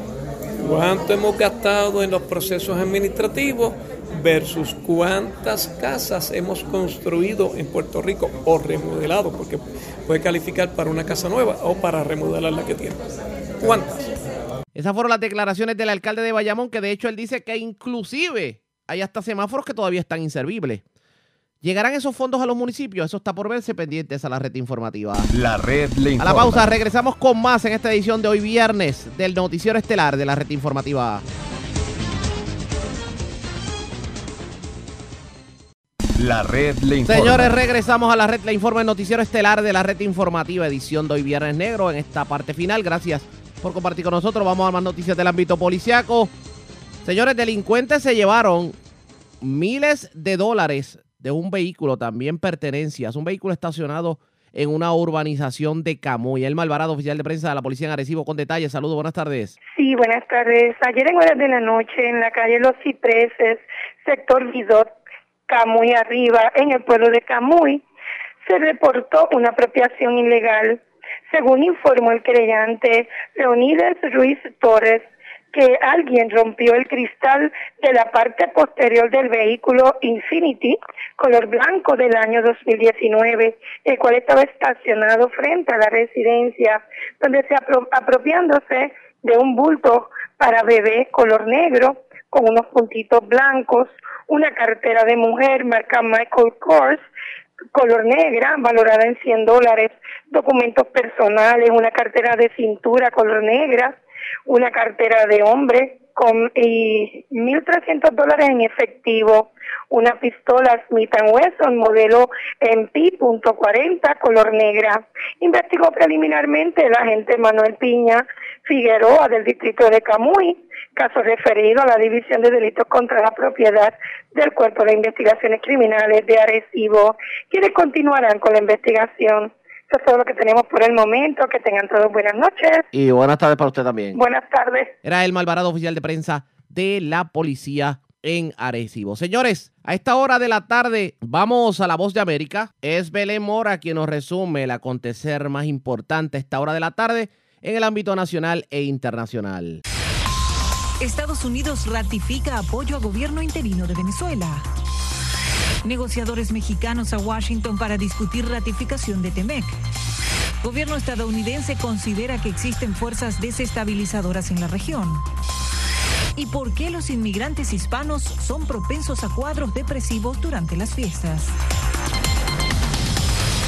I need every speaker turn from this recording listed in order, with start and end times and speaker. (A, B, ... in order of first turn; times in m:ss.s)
0:00.6-0:13.0 A
0:13.6-0:14.0 A
0:14.8-0:20.8 B
0:21.6-0:25.3 B
0:25.3-0:26.7 C
0:26.2-0:31.2 B
0:36.2-0:37.6 C
0:37.1-0:46.3 B
0:47.0-0:48.8 B
0:49.4-0:59.6 B
0:59.8-1:04.9 D
1:05.5-1:07.8 D
1:08.4-1:37.0 D
1:37.8-2:12.8 D
2:12.9-2:14.2 B
2:14.1-2:14.9 D
2:15.0-2:29.8 B
2:31.0-2:34.7 E
2:35.8-2:39.8 E
2:40.6-2:45.2 E
2:46.4-2:51.6 E